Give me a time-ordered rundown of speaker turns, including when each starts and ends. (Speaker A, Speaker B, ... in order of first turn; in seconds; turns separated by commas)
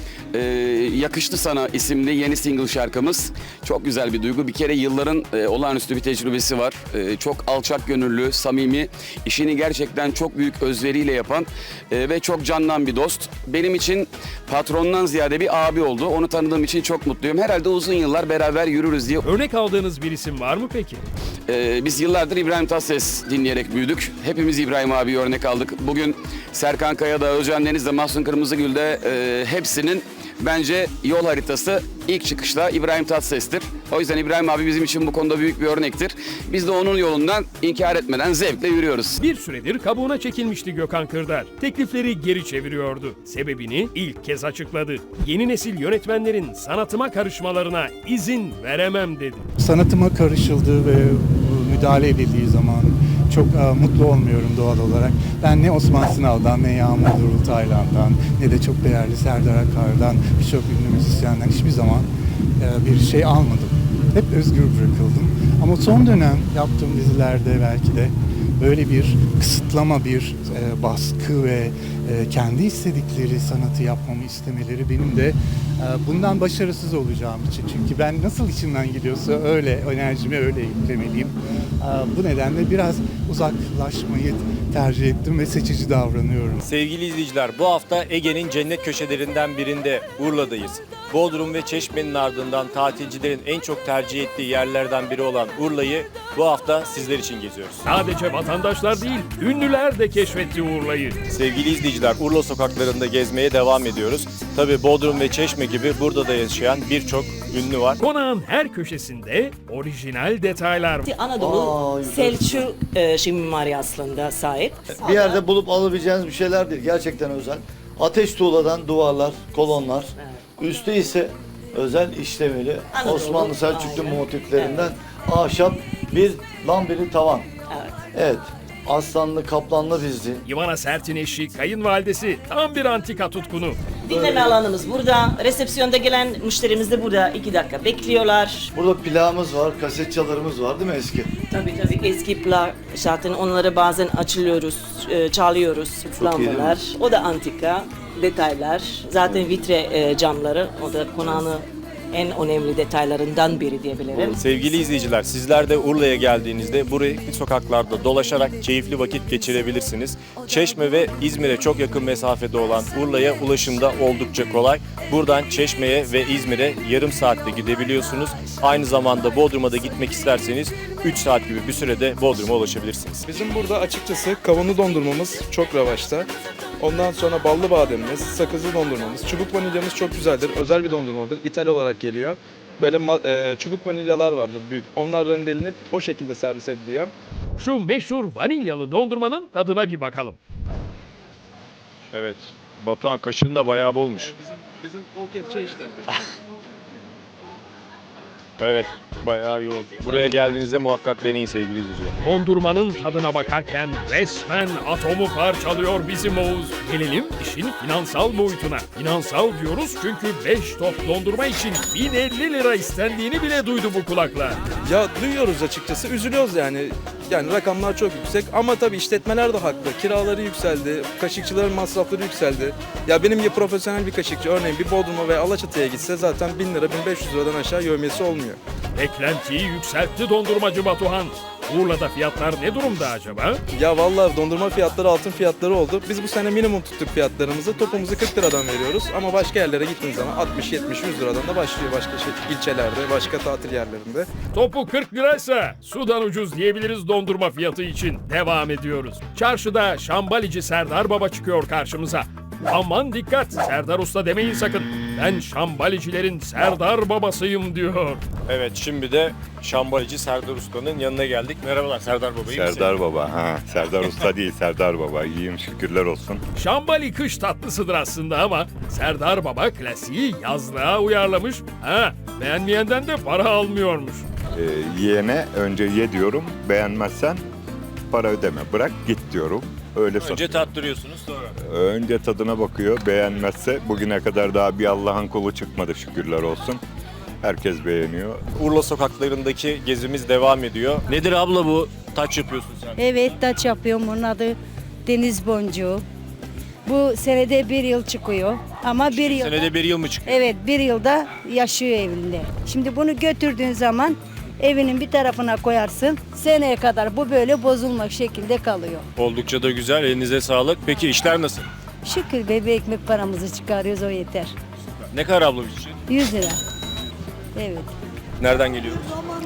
Speaker A: 0.3-19.2, Speaker B: 19.2-21.0, Speaker A: 21.5-39.2, Speaker B: 39.2-49.5, Speaker C: 49.6-86.7, Speaker D: 86.6-97.8, Speaker B: 97.8-101.2, Speaker D: 101.3-108.0, Speaker B: 108.0-111.1, Speaker E: 111.1-114.7, Speaker F: 111.4-112.7, Speaker F: 114.9-127.5, Speaker E: 123.0-124.7, Speaker F: 128.1-130.4, Speaker B: 130.4-133.8, Speaker E: 134.1-138.4, Speaker F: 138.8-141.3, Speaker E: 141.6-144.6, Speaker E: 145.1-154.3, Speaker F: 146.1-146.8, Speaker D: 154.4-173.2, Speaker G: 173.3-176.3, Speaker G: 176.8-187.1, Speaker B: 187.6-190.4, Speaker D: 192.1-194.3, Speaker D: 198.6-202.1, Speaker B: 202.2-214.6, Speaker G: 214.9-228.6, Speaker B: 228.9-233.6, Speaker G: 233.8-244.3, Speaker B: 244.5-258.2, Speaker D: 258.5-262.9, Speaker H: 262.5-266.4, Speaker B: 266.6-274.2, Speaker H: 274.6-277.4, Speaker H: 278.1-280.7, Speaker D: 280.2-281.6, Speaker H: 281.6-286.8, Speaker H: 287.4-288.4, Speaker D: 288.6-293.0, Speaker I: 293.0-296.0, Speaker I: 296.9-299.6, Speaker D: 299.1-300.4, Speaker I: 300.3-309.1, Speaker D: 309.2-311.7, Speaker I: 312.0-314.5, Speaker D: 315.1-316.0, Speaker I: 316.1-316.6, Speaker I: 317.6-317.9, Speaker D: 318.4-319.1